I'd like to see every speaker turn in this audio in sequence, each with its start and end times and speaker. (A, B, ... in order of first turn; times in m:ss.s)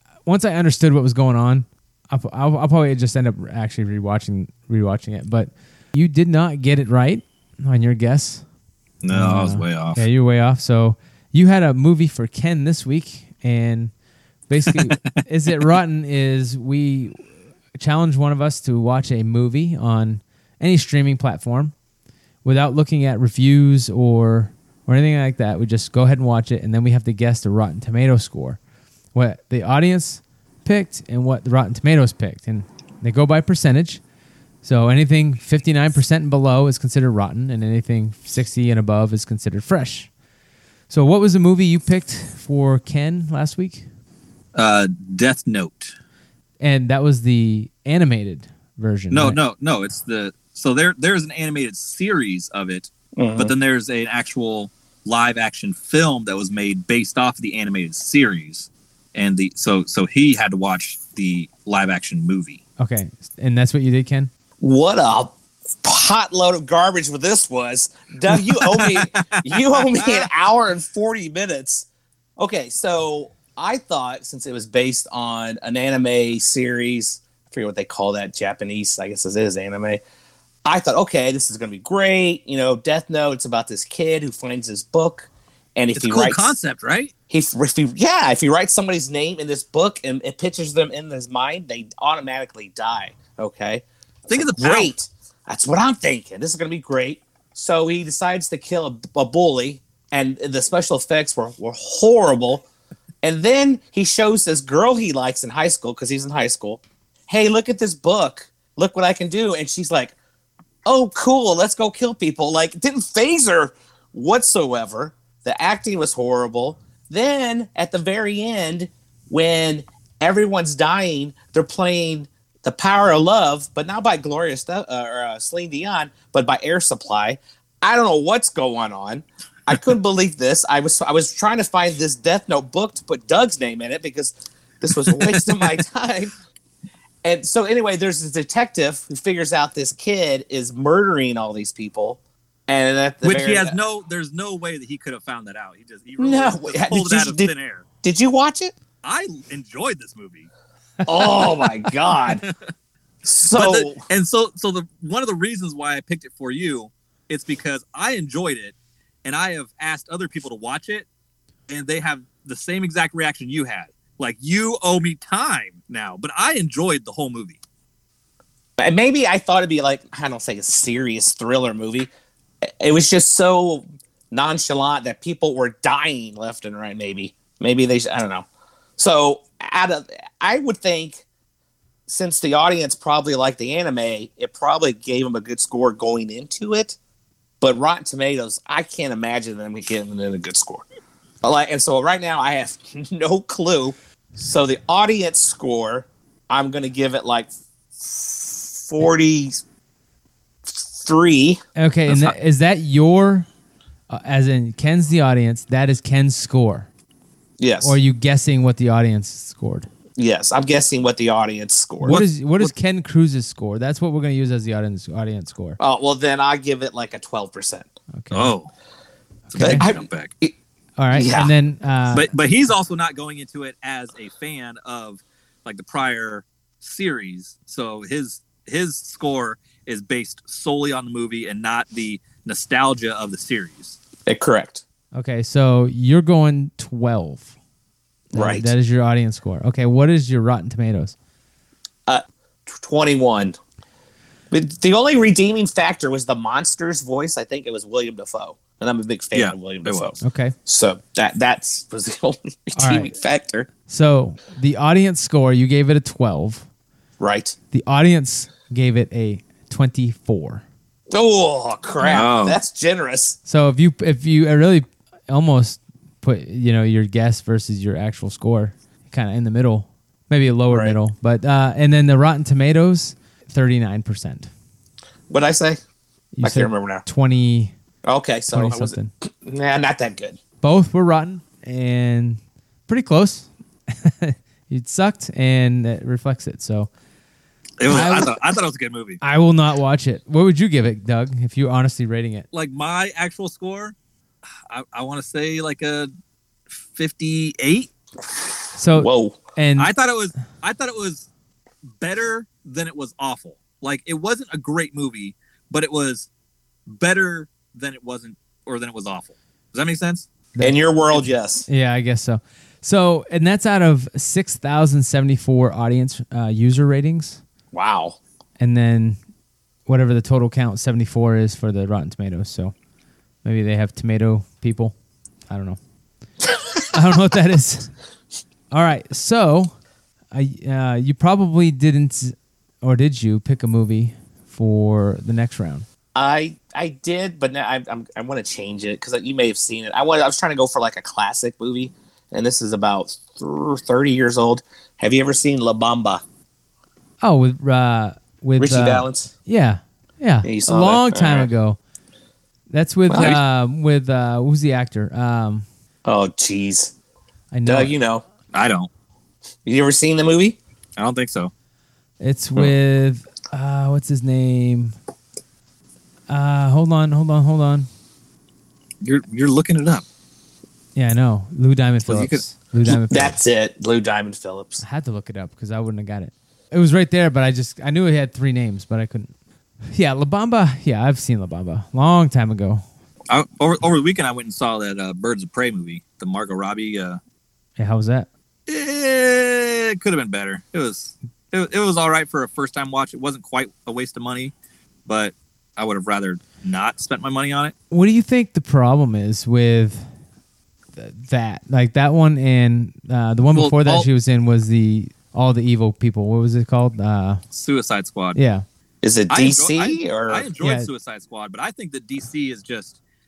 0:00.3-0:08.4 A
0:09.0-0:10.0 B
0:09.1-0:13.9 A
0:14.5-0:21.7 A
0:14.7-0:15.1 B
0:22.4-0:28.6 A
0:29.1-0:34.0 A
0:34.6-0:40.1 A
0:40.9-0:43.9 A
0:44.6-0:45.9 B
0:46.6-0:49.4 A
0:49.1-1:02.6 B
0:53.2-0:53.5 C
1:02.8-1:04.3 A
1:04.6-1:11.9 C
1:08.7-1:10.3 B
1:12.4-1:20.0 C
1:20.6-1:26.5 C
1:26.0-1:27.1 B
1:27.3-1:42.7 C
1:34.3-1:34.9 B
1:43.2-1:50.2 C
1:50.8-2:16.3 C
2:15.1-2:15.8 B
2:17.2-2:23.8 C
2:23.2-2:27.8 B
2:26.2-2:27.5 C
2:28.0-2:28.8 C
2:29.0-2:30.5 B
2:31.1-2:32.4 C
2:31.1-2:31.6 A
2:32.3-2:32.5 B
2:33.2-2:34.0 C
2:33.5-2:41.1 B
2:41.7-2:47.6 B
2:48.8-2:52.1 C
2:52.8-2:58.5 C
2:59.0-3:01.2 C
3:02.1-3:07.0 C
3:07.6-3:10.9 C
3:11.4-3:19.6 C
3:20.7-3:21.6 C
3:21.8-3:23.5 A
3:22.1-3:22.3 B
3:24.1-3:26.9 A
3:27.6-3:28.0 C
3:27.8-3:29.9 A
3:30.2-3:32.2 C
3:32.0-3:35.8 A
3:32.1-3:32.7 B
3:35.8-3:37.9 C
3:38.1-3:38.6 A
3:38.3-3:38.7 B
3:39.5-3:39.9 A
3:39.5-3:40.3 B
3:39.6-3:40.6 C
3:41.0-3:42.3 A
3:41.1-3:41.5 C
3:42.1-3:54.0 B
3:54.3-3:54.8 C
3:55.2-3:57.5 A
3:58.3-4:01.2 A
3:58.3-3:58.7 C
4:02.1-4:03.6 C
4:04.5-4:13.7 C
4:09.3-4:10.1 B
4:10.2-4:10.6 A
4:12.8-4:13.1 A
4:13.9-4:16.7 A
4:17.2-4:17.6 C
4:17.7-4:20.6 A
4:21.1-4:23.4 C
4:22.0-4:22.6 B
4:23.4-4:34.5 A
4:30.7-4:31.0 C
4:35.3-4:35.8 C
4:36.3-4:37.7 A
4:36.4-4:37.0 C
4:38.0-4:40.4 C
4:38.5-4:39.1 A
4:40.6-4:46.9 A
4:47.8-4:49.2 B
4:47.9-4:48.3 A
4:49.2-4:52.5 A
4:52.5-4:54.0 B
4:54.7-4:56.1 B
4:56.7-4:57.9 B
4:58.8-4:59.9 A
4:58.9-4:59.4 C
4:59.8-5:01.3 B
5:02.0-5:06.3 B
5:06.9-5:10.3 B
5:10.6-5:10.8 A
5:10.6-5:11.7 C
5:11.7-5:17.4 A
5:17.7-5:18.2 C
5:18.6-5:19.2 A
5:19.9-5:22.7 A
5:23.4-5:25.0 A
5:25.5-5:25.8 A
5:26.9-5:27.9 A
5:28.7-5:29.7 A
5:30.3-5:35.9 A
5:36.2-5:46.2 C
5:47.2-5:51.8 A
5:48.6-5:49.3 C
5:50.4-5:51.5 C
5:52.7-5:55.7 A
5:53.1-5:53.4 C
5:56.1-5:56.9 C
5:57.5-5:57.9 A
5:57.7-5:58.2 C
5:58.5-5:58.9 B
5:59.6-6:00.6 C
6:01.0-6:01.5 B
6:02.2-6:05.0 A
6:06.3-6:07.9 A
6:09.0-6:10.0 B
6:11.0-6:13.4 A
6:12.0-6:12.4 B
6:12.9-6:14.8 C
6:14.8-6:19.3 A
6:19.9-6:22.8 A
6:23.3-6:27.2 B
6:27.8-6:28.3 A
6:28.7-6:34.5 B
6:35.1-6:37.7 B
6:37.9-6:40.1 A
6:41.0-6:47.4 A
6:43.6-6:44.1 B
6:47.5-6:48.4 B
6:48.4-6:48.6 A
6:49.0-6:50.5 C
6:49.3-6:53.0 B
6:50.6-6:50.9 A